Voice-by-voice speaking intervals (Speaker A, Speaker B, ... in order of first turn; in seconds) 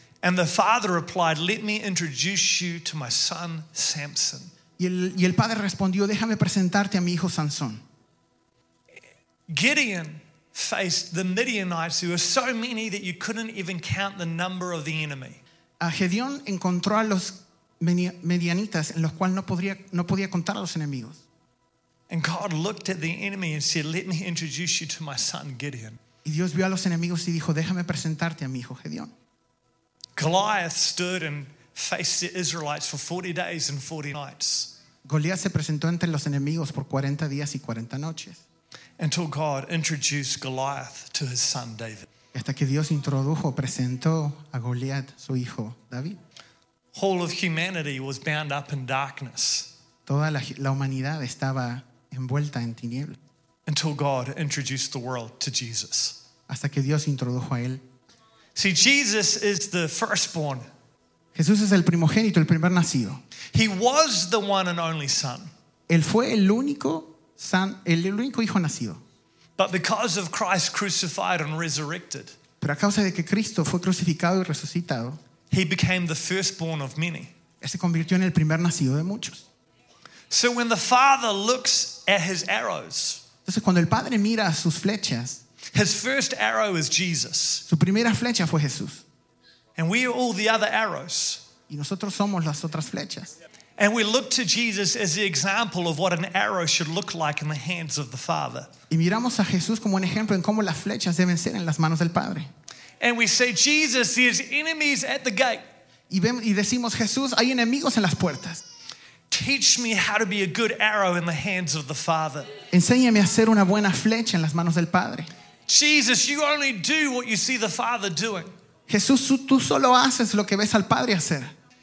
Speaker A: 0.2-4.5, 9.5-15.4, 22.1-26.0, 30.2-34.7, 39.0-42.1, 46.9-49.7, 53.7-56.2, 58.5-60.7, 63.5-65.5, 69.6-72.3, 75.5-77.3, 80.3-83.2, 85.7-87.7, 89.8-91.4, 93.8-98.7, 103.0-105.7, 109.3-112.5, 115.7-118.5
Speaker B: 4.8-7.8, 15.8-21.2, 26.2-29.1, 35.0-38.4, 42.3-46.2, 50.1-53.2, 56.5-57.8, 61.4-63.2, 65.9-69.0, 72.6-75.2, 77.6-79.4, 83.5-85.4, 87.7-89.0, 91.7-93.3, 98.9-102.5, 106.1-108.6, 112.7-115.3, 118.9-121.5